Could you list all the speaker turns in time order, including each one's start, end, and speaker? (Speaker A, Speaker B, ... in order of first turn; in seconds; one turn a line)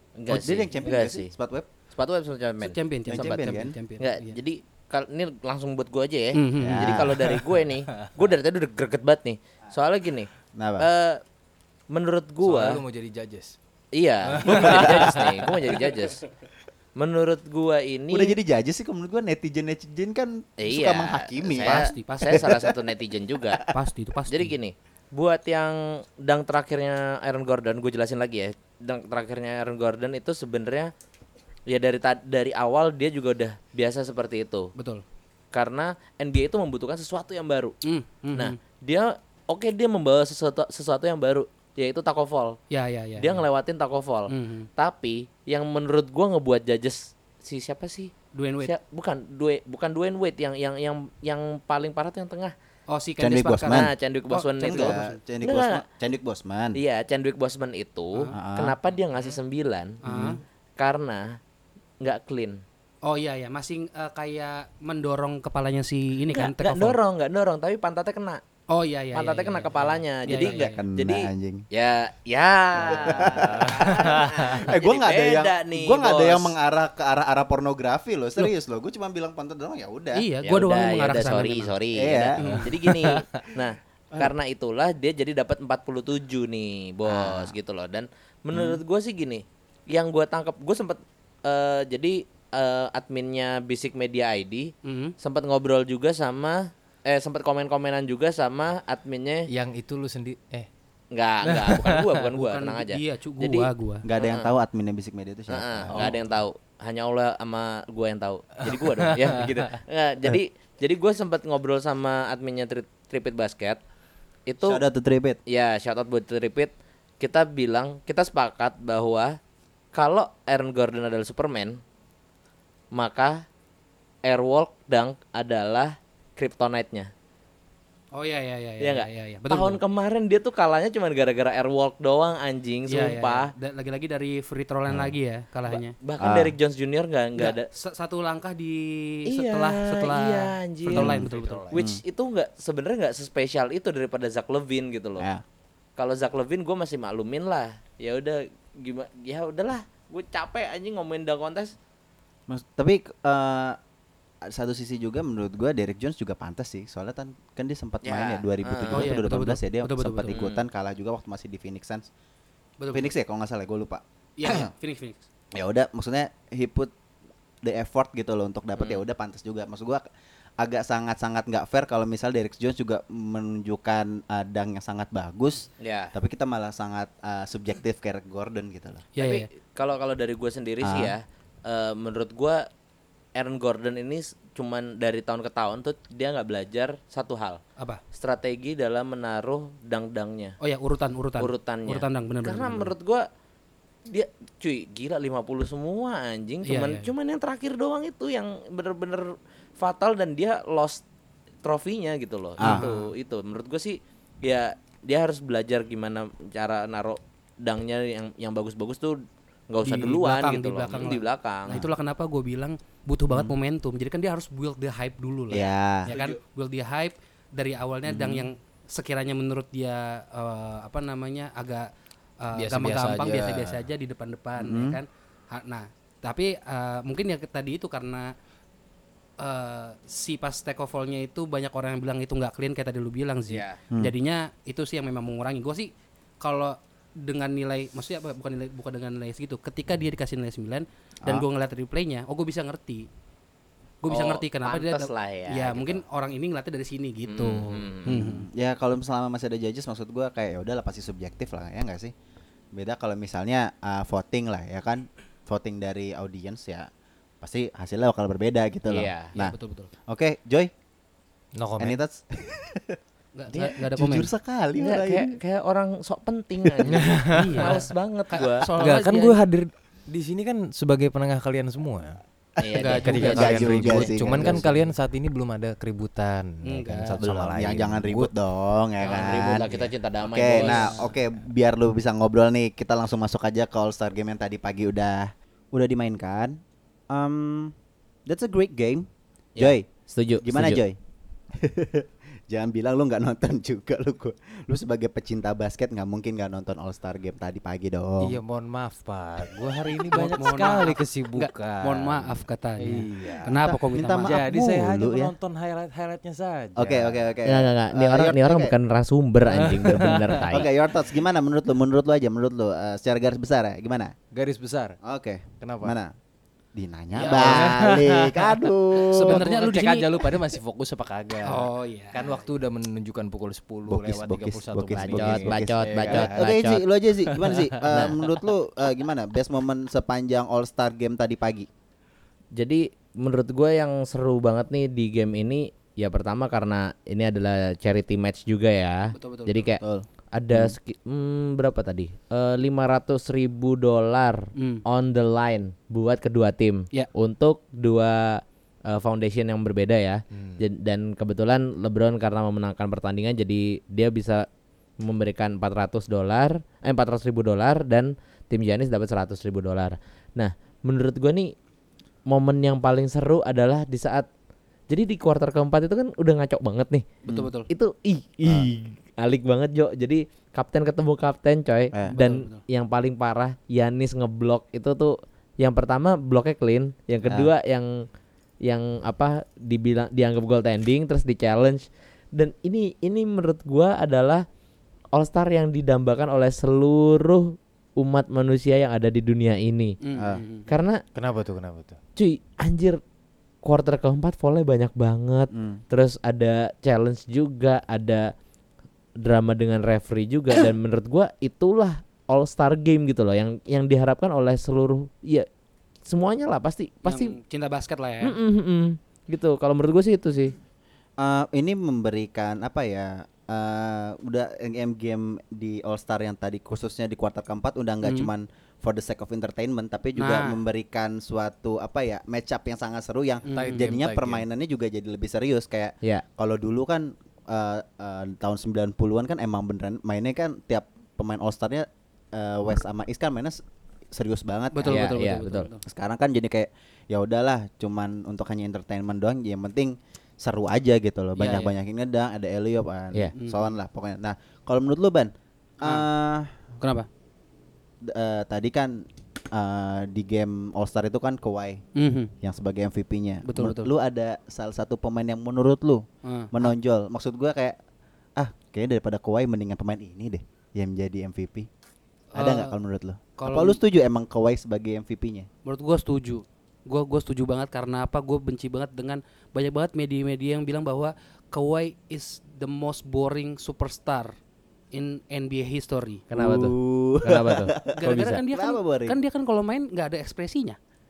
Speaker A: 0.2-1.3
Speaker B: 0.3-1.7
Speaker A: 1.9-11.2
Speaker C: 2.6-4.4
Speaker B: 3.1-3.8
Speaker C: 6.3-7.0
Speaker B: 6.6-7.2
Speaker B: 10.6-10.9
Speaker A: 11.9-12.8
Speaker D: 12.4-13.6
Speaker A: 13.9-16.2
Speaker D: 14.3-15.8
Speaker B: 14.5-15.1
Speaker A: 16.9-18.4
Speaker B: 18.1-22.8
Speaker A: 20.6-23.6
Speaker C: 21.6-22.4
Speaker C: 23.7-24.5
Speaker A: 24.3-30.9
Speaker A: 31.7-34.7
Speaker C: 34.8-35.0
Speaker A: 35.5-37.7
Speaker C: 37.8-38.5
Speaker A: 38.3-42.6
Speaker C: 42.7-43.4
Speaker A: 43.2-52.5
Speaker C: 44.3-44.7
Speaker C: 48.3-48.7
Speaker C: 52.9-55.2
Speaker B: 53.2-53.9
Speaker A: 53.7-55.8
Speaker B: 54.6-56.8
Speaker A: 56.7-60.0
Speaker B: 58.3-59.3
Speaker C: 60.0-60.4
Speaker B: 60.0-60.4
Speaker A: 60.8-61.4
Speaker A: 62.0-62.6
Speaker C: 63.0-67.0
Speaker A: 66.3-68.4
Speaker C: 68.7-70.8
Speaker A: 69.1-76.5
Speaker B: 70.3-71.7
Speaker B: 72.8-80.2
Speaker C: 80.1-81.7
Speaker A: 80.4-99.5
Speaker B: 81.9-82.6
Speaker C: 82.4-82.7
Speaker B: 87.1-87.5
Speaker B: 88.5-88.8
Speaker C: 94.8-95.1
Speaker D: 99.5-100.7
Speaker A: 101.1-104.5
Speaker D: 101.4-102.2
Speaker C: 102.3-104.0
Speaker B: 104.0-106.2
Speaker A: 105.5-113.8
Speaker D: 108.7-109.5
Speaker A: 114.5-114.8
Speaker B: 114.6-115.4
Speaker A: 115.5-119.4
Speaker A: 119.9-121.8
Speaker A: 122.9-123.4
Speaker A: 124.2-127.1
Speaker C: 128.1-129.8
Speaker A: 128.8-133.5
Speaker C: 132.9-135.9
Speaker A: 135.7-137.7
Speaker B: 136.2-136.5
Speaker C: 137.4-141.7
Speaker A: 139.3-145.3
Speaker B: 140.9-142.0
Speaker D: 141.4-141.6
Speaker A: 146.0-151.7
Speaker B: 152.5-153.8
Speaker B: 154.4-162.1
Speaker A: 158.0-159.1
Speaker C: 158.9-160.3
Speaker A: 160.3-160.6
Speaker C: 162.8-163.1
Speaker B: 162.9-164.7
Speaker C: 164.4-165.3
Speaker B: 165.5-166.9
Speaker B: 167.6-170.0
Speaker A: 168.8-169.0
Speaker B: 170.6-179.1
Speaker A: 175.8-176.1
Speaker C: 179.2-179.5
Speaker A: 179.2-182.7
Speaker B: 180.8-181.1
Speaker A: 183.3-187.6
Speaker A: 188.1-190.6
Speaker C: 190.6-192.9
Speaker A: 191.4-193.2
Speaker A: 194.1-201.0
Speaker C: 196.6-197.1
Speaker A: 201.6-211.8
Speaker C: 202.6-203.1
Speaker C: 209.8-221.9
Speaker B: 213.3-213.5
Speaker B: 215.5-216.1
Speaker A: 215.5-216.4
Speaker B: 218.1-218.5
Speaker C: 222.4-228.3
Speaker D: 222.5-223.9
Speaker B: 224.6-225.0
Speaker C: 229.4-243.1
Speaker A: 233.5-233.8
Speaker C: 244.0-248.4
Speaker A: 244.1-246.0
Speaker A: 247.2-248.2
Speaker B: 248.1-252.1
Speaker B: 252.7-256.9
Speaker B: 257.4-259.5
Speaker A: 258.9-259.3
Speaker C: 259.3-259.9
Speaker B: 260.1-260.7
Speaker D: 261.6-262.0
Speaker B: 261.8-263.0
Speaker C: 263.4-264.3
Speaker B: 263.5-265.4
Speaker A: 264.8-269.0
Speaker B: 266.6-267.1
Speaker D: 266.9-267.8
Speaker C: 267.3-269.4
Speaker D: 268.7-272.2
Speaker A: 272.6-274.3
Speaker C: 272.7-274.6
Speaker D: 273.0-278.3
Speaker B: 273.2-274.9
Speaker C: 276.6-277.2
Speaker B: 277.2-279.6
Speaker A: 279.0-281.0
Speaker D: 279.6-279.9
Speaker B: 280.2-286.6
Speaker D: 280.6-281.0
Speaker B: 287.1-287.7
Speaker B: 288.3-289.9
Speaker A: 289.6-290.8
Speaker B: 290.4-291.0
Speaker B: 291.5-298.4
Speaker D: 298.2-303.5
Speaker C: 300.1-304.4
Speaker B: 303.4-305.3
Speaker D: 304.2-307.3
Speaker B: 306.8-308.7
Speaker A: 307.4-310.7
Speaker D: 309.4-310.6
Speaker B: 310.5-314.1
Speaker D: 314.3-315.0
Speaker B: 315.0-316.1
Speaker D: 315.6-315.9
Speaker B: 316.7-319.4
Speaker C: 317.1-317.6
Speaker D: 317.2-326.4
Speaker C: 318.9-320.4
Speaker C: 321.4-322.4
Speaker B: 323.9-331.7
Speaker A: 324.9-326.8
Speaker D: 327.2-328.3
Speaker A: 332.6-339.8
Speaker C: 339.1-339.6
Speaker B: 339.8-340.8
Speaker A: 340.3-354.5
Speaker C: 344.6-344.8
Speaker D: 350.3-350.6
Speaker A: 355.0-361.5
Speaker A: 362.3-364.3
Speaker A: 364.9-367.1
Speaker C: 367.3-367.7
Speaker A: 367.7-378.0
Speaker B: 368.4-368.7
Speaker C: 372.1-372.6
Speaker B: 377.2-377.5
Speaker A: 378.6-384.4
Speaker A: 385.1-389.9
Speaker C: 390.0-390.7
Speaker B: 390.2-390.4
Speaker A: 390.7-391.0
Speaker D: 391.1-392.0
Speaker A: 392.1-393.0
Speaker A: 393.6-398.3
Speaker B: 395.5-395.8
Speaker A: 399.2-405.5
Speaker A: 406.1-407.4
Speaker C: 407.0-408.4
Speaker A: 408.2-410.6
Speaker B: 411.2-435.1
Speaker C: 418.0-418.3
Speaker C: 420.1-420.6
Speaker C: 423.4-423.9
Speaker D: 423.5-424.4
Speaker C: 434.7-435.8
Speaker A: 434.9-435.7
Speaker B: 435.8-445.3
Speaker C: 441.4-441.7
Speaker C: 443.4-443.7
Speaker C: 445.8-446.1
Speaker B: 445.8-446.5
Speaker C: 446.8-447.1
Speaker B: 448.0-451.8
Speaker C: 451.9-452.3
Speaker B: 452.4-457.8
Speaker C: 453.4-453.9
Speaker C: 456.2-456.7
Speaker B: 458.4-461.7
Speaker C: 462.3-462.7
Speaker B: 462.4-465.5
Speaker C: 463.4-463.8
Speaker C: 465.6-474.3
Speaker C: 474.9-476.4
Speaker A: 476.3-478.4
Speaker B: 476.3-477.9
Speaker C: 477.9-480.8
Speaker B: 478.5-479.2